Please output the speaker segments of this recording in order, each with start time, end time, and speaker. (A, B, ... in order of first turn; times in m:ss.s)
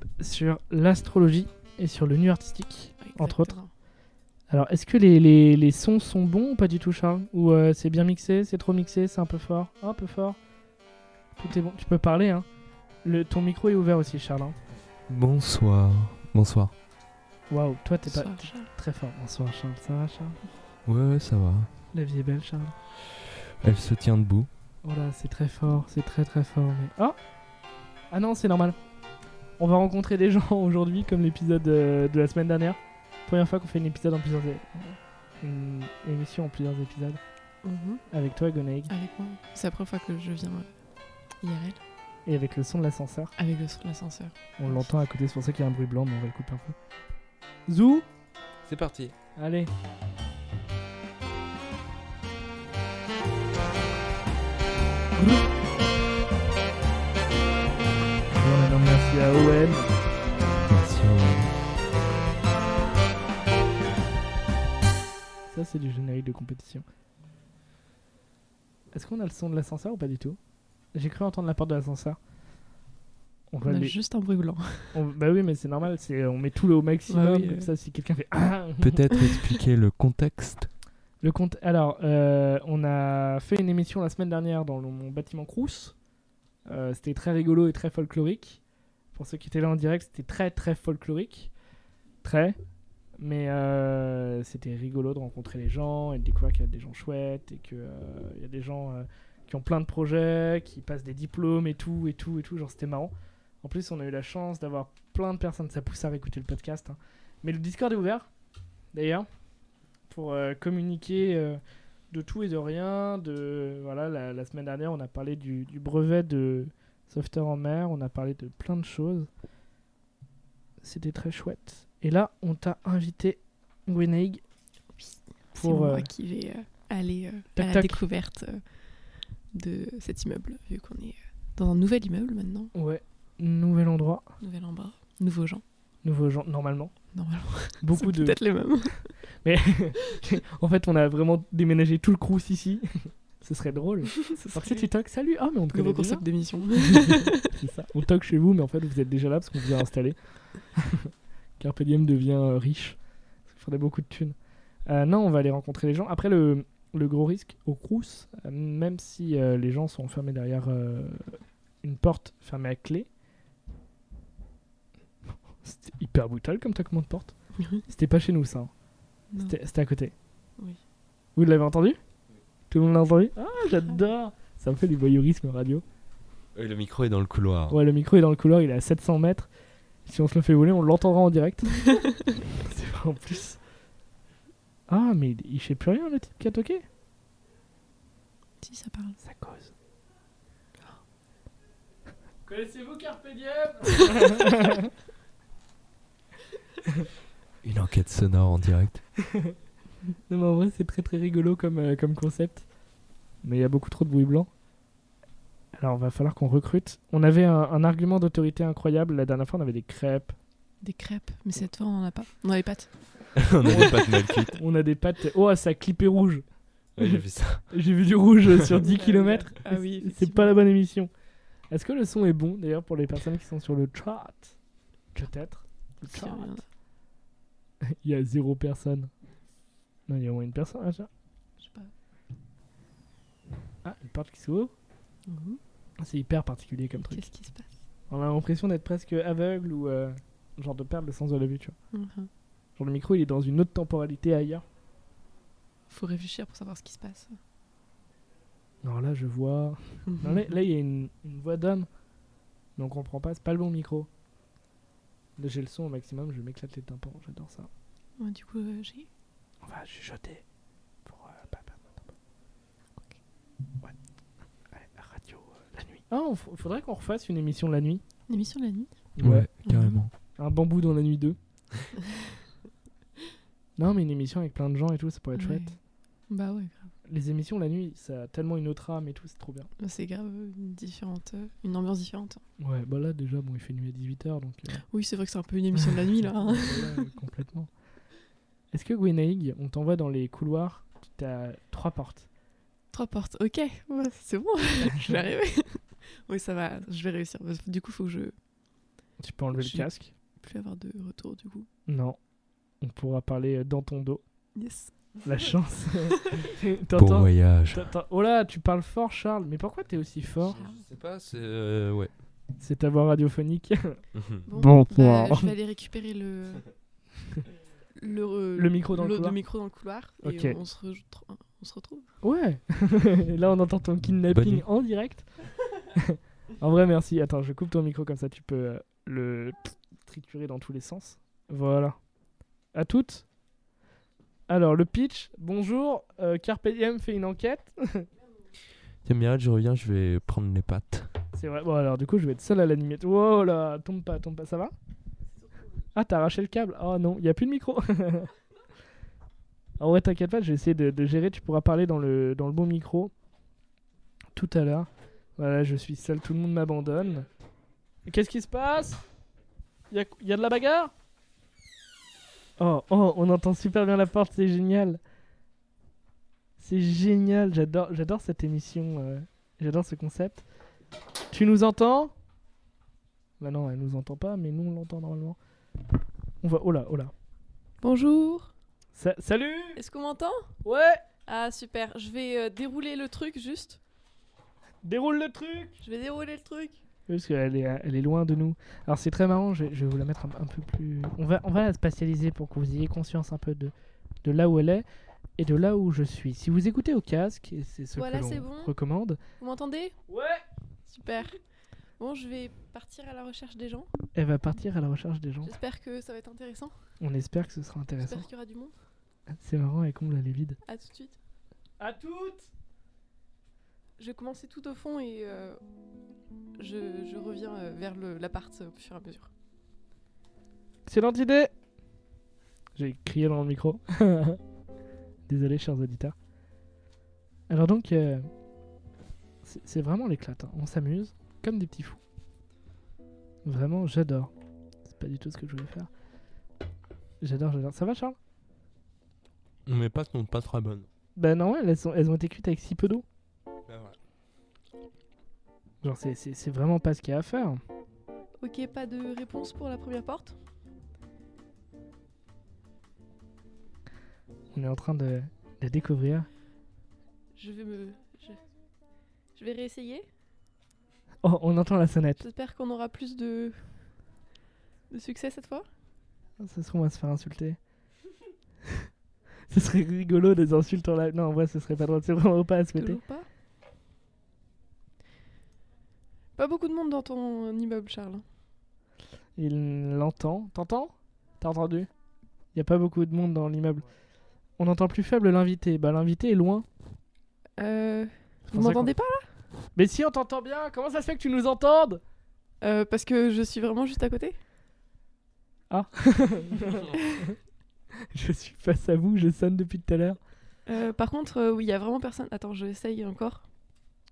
0:00.2-0:03.6 A
0:03.0-0:03.7 B
0:04.5-0:10.4 A
0:11.4-0:12.5 A
0:13.0-0:14.6 A
0:15.1-0:16.7 C
0:17.5-0:20.4 A
0:18.1-0:18.7 B
0:20.9-0:21.7 C
0:21.9-0:22.7 A
0:23.6-0:24.5 C
0:24.8-0:27.2 A
0:28.1-0:28.8 A
0:29.6-0:37.2 A
0:37.6-0:38.0 B
0:38.1-0:38.9 A
0:38.9-0:40.7 B
0:41.4-0:41.8 B
0:42.3-0:43.3 A
0:43.4-0:44.9 B
0:44.6-0:46.8 A
0:47.7-0:48.1 A
0:48.6-0:49.2 C
0:49.4-0:49.7 A
0:55.2-0:55.5 A
0:58.3-0:59.9 A
1:00.7-1:01.5 C
1:05.5-1:06.9 A
1:08.9-1:10.4 A
1:10.9-1:12.2 A
1:13.5-1:14.0 A
1:13.6-1:15.0 B
1:14.9-1:19.0 A
1:17.1-1:17.7 B
1:18.8-1:20.7 C
1:21.2-1:26.0 A
1:26.7-1:28.6 A
1:29.1-1:31.5 A
1:32.2-1:32.6 A
1:33.2-1:48.3 A
1:48.9-1:49.3 A
1:50.1-1:51.6 A
1:52.1-1:59.3 A
2:00.8-2:04.4 A
2:05.0-2:08.6 B
2:05.5-2:06.1 A
2:07.6-2:08.0 A
2:09.5-2:12.7 B
2:12.7-2:14.3 A
2:14.4-2:15.6 B
2:16.0-2:17.0 A
2:17.1-2:19.1 B
2:17.8-2:18.4 A
2:19.4-2:26.2 A
2:24.2-2:24.9 B
2:25.7-2:27.5 B
2:27.0-2:34.4 A
2:34.9-2:43.1 A
2:45.6-2:47.4 A
2:47.9-2:48.7 A
2:49.3-2:49.6 B
2:49.4-2:50.1 A
2:51.4-2:52.0 A
2:52.7-2:55.8 A
2:56.6-2:57.8 C
2:57.7-2:59.5 A
3:00.1-3:03.6 A
3:04.9-3:06.8 A
3:08.6-3:09.2 B
3:09.2-3:09.7 A
3:12.5-3:14.9 A
3:17.6-3:19.0 C
3:20.3-3:22.7 A
3:23.4-3:24.5 A
3:25.8-3:30.4 A
3:30.8-3:33.0 B
3:33.4-3:34.6 C
3:33.6-3:36.4 A
3:37.0-3:37.6 C
3:37.0-3:41.1 A
3:38.8-3:40.7 B
3:41.7-3:44.6 A
3:45.1-3:46.5 A
3:46.1-3:46.7 B
3:47.8-3:49.1 A
3:50.1-3:51.1 A
3:51.6-3:51.9 B
3:53.8-3:54.7 A
3:55.3-3:55.6 B
3:56.0-3:57.2 A
3:57.0-3:57.7 B
3:58.1-4:01.8 A
4:01.9-4:02.3 B
4:02.8-4:04.6 A
4:05.9-4:07.4 B
4:08.8-4:11.9 A
4:12.8-4:14.1 A
4:15.4-4:17.7 A
4:18.2-4:19.1 B
4:19.6-4:20.4 A
4:21.0-4:22.0 A
4:24.7-4:28.0 A
4:28.3-4:28.9 B
4:29.2-4:29.5 A
4:29.2-4:30.1 C
4:29.6-4:30.0 B
4:30.4-4:31.4 A
4:33.8-4:35.8 A
4:35.4-4:35.8 B
4:36.3-4:36.9 B
4:37.1-4:39.7 A
4:39.8-4:42.4 B
4:42.6-4:44.8 A
4:44.9-4:47.1 B
4:46.3-4:47.7 A
4:48.7-4:52.3 A
4:52.9-4:58.4 B
4:59.2-5:00.1 A
4:59.6-4:59.9 B
5:00.4-5:01.7 B
5:01.9-5:02.2 A
5:02.8-5:04.2 A
5:04.6-5:04.9 B
5:05.2-5:10.6 A
5:06.1-5:06.5 B
5:07.0-5:07.9 C
5:10.5-5:12.1 C
5:10.6-5:10.8 B
5:12.6-5:15.5 A
5:14.2-5:14.4 C
5:14.5-5:16.7 B
5:17.9-5:22.1 B
5:18.6-5:19.4 A
5:20.2-5:20.6 A
5:22.2-5:25.3 A
5:24.3-5:24.6 C
5:26.0-5:32.0 A
5:32.7-5:33.2 A
5:34.5-5:38.1 A
5:39.0-5:41.1 C
5:41.3-5:44.7 A
5:45.4-5:45.7 B
5:46.0-5:48.3 A
5:49.8-5:53.1 A
5:54.4-5:57.3 A
5:58.1-5:59.0 A
5:59.9-6:00.9 A
6:02.6-6:05.0 A
6:06.6-6:10.4 A
6:11.3-6:12.1 A
6:13.4-6:15.4 A
6:16.4-6:17.1 A
6:17.8-6:18.5 B
6:19.0-6:19.8 A
6:19.8-6:20.5 B
6:20.6-6:21.0 A
6:21.3-6:23.8 B
6:24.8-6:25.8 A
6:25.8-6:26.8 B
6:27.1-6:33.7 A
6:34.2-6:34.9 A
6:35.4-6:39.2 A
6:38.0-6:38.7 B
6:39.4-6:40.0 B
6:40.1-6:40.4 A
6:40.9-6:41.4 B
6:42.0-6:43.9 B
6:44.2-6:45.6 A
6:45.4-6:46.8 B
6:47.0-6:48.3 A
6:48.0-6:48.7 B
6:49.3-6:50.6 A
6:50.6-6:51.2 B
6:51.8-6:52.5 A
6:54.0-6:55.6 B
6:56.6-6:59.3 B
7:00.9-7:01.5 A
7:02.8-7:04.4 A
7:05.3-7:06.2 A
7:07.5-7:08.3 A
7:09.4-7:12.0 A
7:13.4-7:14.3 A
7:14.9-7:15.9 A
7:17.2-7:18.2 A
7:19.7-7:20.9 C
7:21.2-7:23.0 A
7:23.7-7:24.0 C
7:25.8-7:27.6 A
7:28.4-7:30.4 B
7:34.5-7:36.3 A
7:37.4-7:38.4 B
7:39.4-7:40.1 B
7:41.2-7:42.2 A
7:42.2-7:43.7 B
7:44.9-7:45.7 B
7:46.4-7:47.6 A
7:49.5-7:53.0 A
7:52.8-7:53.3 B
7:56.4-7:58.2 B
7:59.4-8:01.9 A
8:02.5-8:03.9 A
8:04.6-8:06.7 A
8:07.6-8:09.3 B
8:08.5-8:08.9 A
8:09.8-8:12.0 A
8:12.6-8:14.4 B
8:15.7-8:17.0 A
8:18.1-8:20.2 A
8:20.7-8:23.4 B